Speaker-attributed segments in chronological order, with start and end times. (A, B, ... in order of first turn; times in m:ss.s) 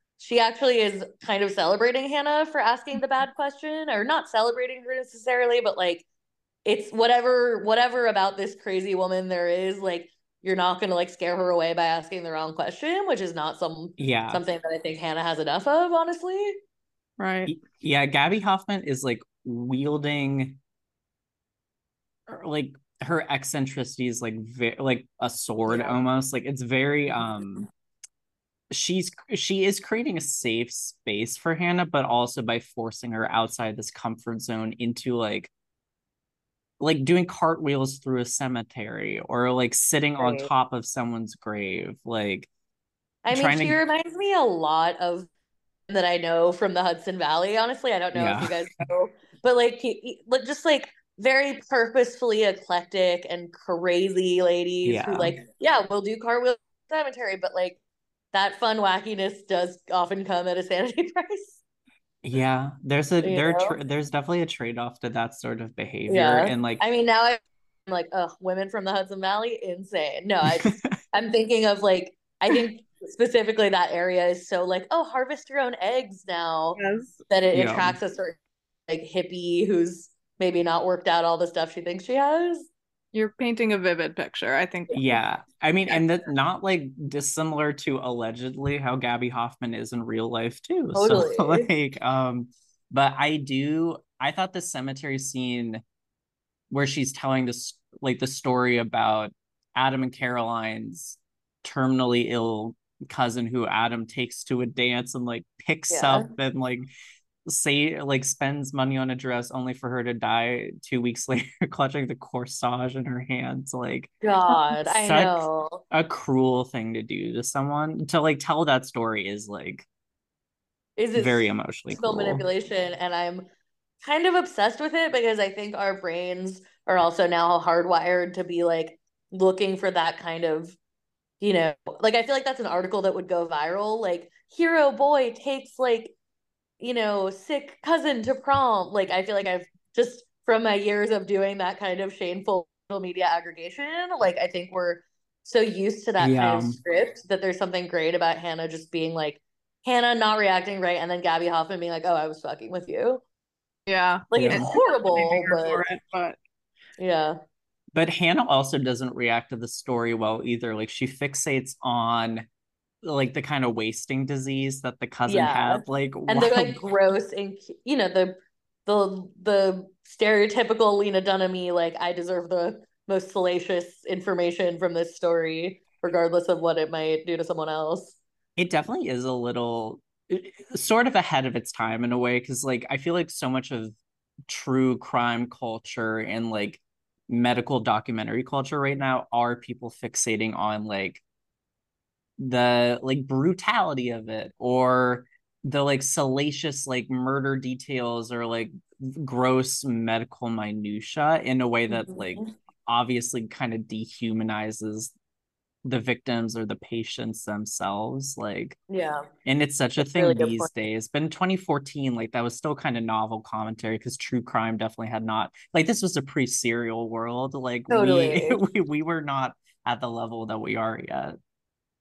0:00.2-0:06.0 A
0:06.6-0:16.6 A
0:14.0-0:14.4 B
0:17.2-0:17.5 C
0:17.5-0:20.6 B
0:22.3-0:27.7 B
0:25.7-0:25.9 A
0:28.7-0:35.5 B
0:36.8-0:42.5 B
0:40.2-0:40.5 A
0:43.2-0:45.3 A
0:43.3-0:43.8 B
0:45.9-0:57.8 A
0:48.1-0:48.6 B
0:54.8-0:55.4 B
0:58.3-1:01.6 A
1:02.2-1:06.8 B
1:03.2-1:03.8 A
1:06.1-1:22.7 A
1:10.6-1:11.0 B
1:16.8-1:17.2 C
1:17.5-1:18.0 B
1:23.1-1:25.0 C
1:24.9-1:35.8 B
1:30.9-1:31.7 A
1:36.7-1:46.9 B
1:45.9-1:46.3 A
1:47.5-1:54.1 B
1:54.2-1:55.8 A
1:54.8-1:59.9 B
2:01.0-2:03.4 A
2:01.1-2:02.4 B
2:04.0-2:10.8 A
2:11.4-2:16.1 A
2:16.8-2:33.2 A
2:26.2-2:26.8 B
2:33.9-2:36.4 C
2:34.3-2:35.8 A
2:34.3-2:34.6 B
2:37.0-2:37.4 A
2:37.9-2:42.5 B
2:43.0-2:46.8 B
2:45.2-2:58.2 A
2:58.6-3:04.0 B
3:04.5-3:11.2 B
3:12.4-3:25.1 B
3:21.9-3:22.5 A
3:25.8-3:28.8 B
3:28.9-3:29.3 A
3:29.4-3:41.4 B
3:30.0-3:30.7 A
3:37.9-3:38.6 A